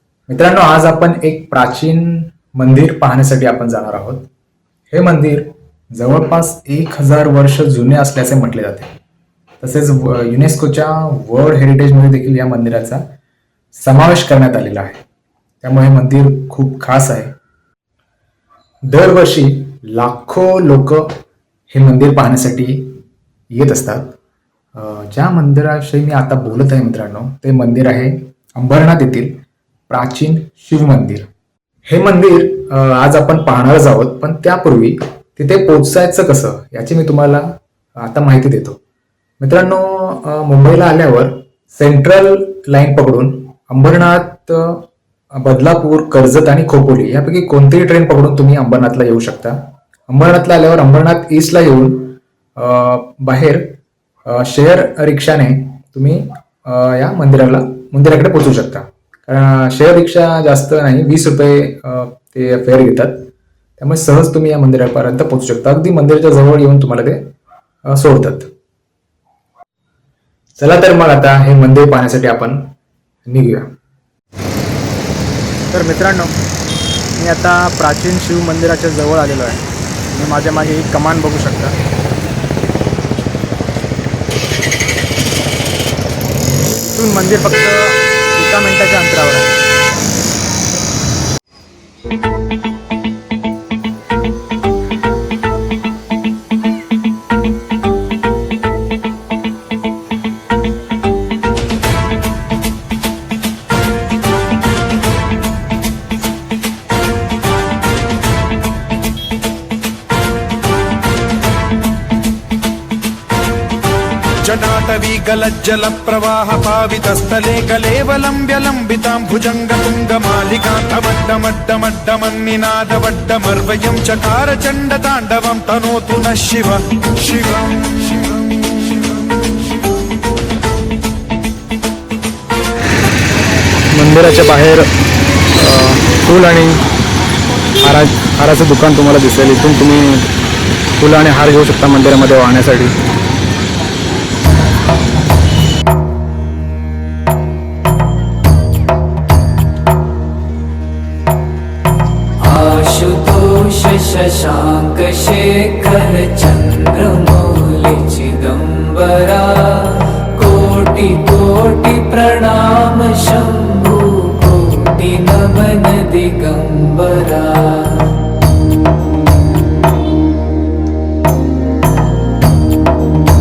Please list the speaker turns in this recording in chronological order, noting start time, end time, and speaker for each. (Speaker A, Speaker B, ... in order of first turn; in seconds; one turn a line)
Speaker A: 0.3-4.3
Speaker A: 4.9-8.9
Speaker A: 9.6-13.0
Speaker A: 13.7-15.0
Speaker A: 15.6-17.3
Speaker A: 18.9-21.1
Speaker A: 21.7-24.1
Speaker A: 24.7-29.4
Speaker A: 29.9-31.3
Speaker A: 31.9-37.4
Speaker A: 38.0-38.8
Speaker A: 39.4-44.8
Speaker A: 45.3-53.6
Speaker A: 54.2-63.2
Speaker A: 63.8-67.2
Speaker A: 67.9-68.5
Speaker A: 70.6-72.6
Speaker A: 73.3-73.7
Speaker B: 75.8-76.3
Speaker B: 78.1-79.0
Speaker A: 79.1-79.4
Speaker B: 80.2-81.7
Speaker B: 87.0-87.7
Speaker A: 87.1-87.7
Speaker A: 88.4-89.4
Speaker B: 88.8-89.2
Speaker C: 114.4-129.0
Speaker B: 134.0-134.8
Speaker A: 134.0-134.8
Speaker B: 135.6-136.7
Speaker A: 135.6-136.8
Speaker A: 137.8-140.1
Speaker B: 137.9-140.2
Speaker A: 141.0-142.8
Speaker B: 141.1-141.9
Speaker D: 152.4-168.2